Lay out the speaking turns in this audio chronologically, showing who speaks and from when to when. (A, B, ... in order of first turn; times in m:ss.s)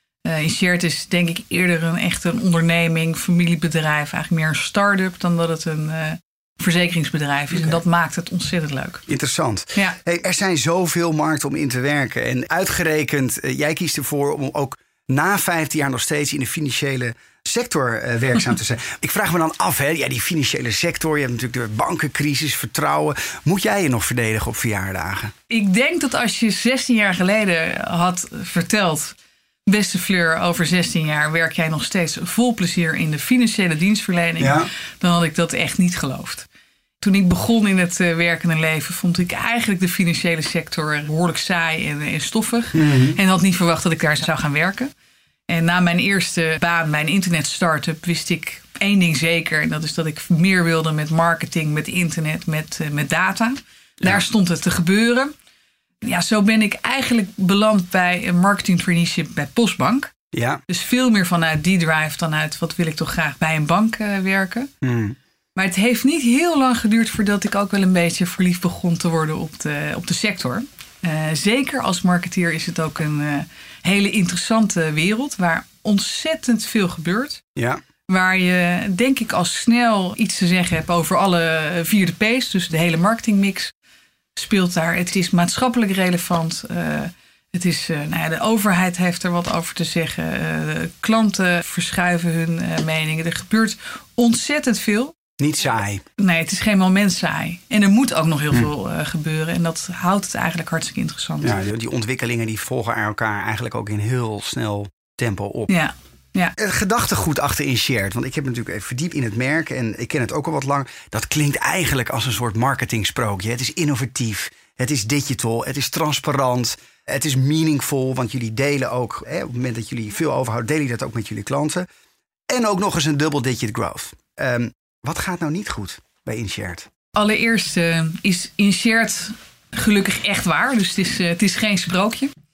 0:00.2-0:09.1 A
0:07.5-0:07.8 B
0:09.1-0:25.3 B
0:25.5-0:29.2 A
0:29.7-0:36.5 A
0:34.4-0:34.7 B
0:37.0-0:44.9 A
0:42.7-0:43.2 B
0:45.5-0:55.3 A
0:56.0-1:00.1 A
1:00.3-1:00.6 B
1:00.7-1:04.7 A
1:04.8-1:05.2 B
1:05.6-1:17.4 A
1:17.6-1:17.8 B
1:18.1-1:23.7 A
1:24.4-1:35.2 A
1:35.4-1:36.0 B
1:36.2-1:41.5 A
1:41.4-1:45.7 B
1:45.7-1:46.5 A
1:46.6-2:01.8 B
2:02.5-2:06.9 B
2:07.2-2:12.3 A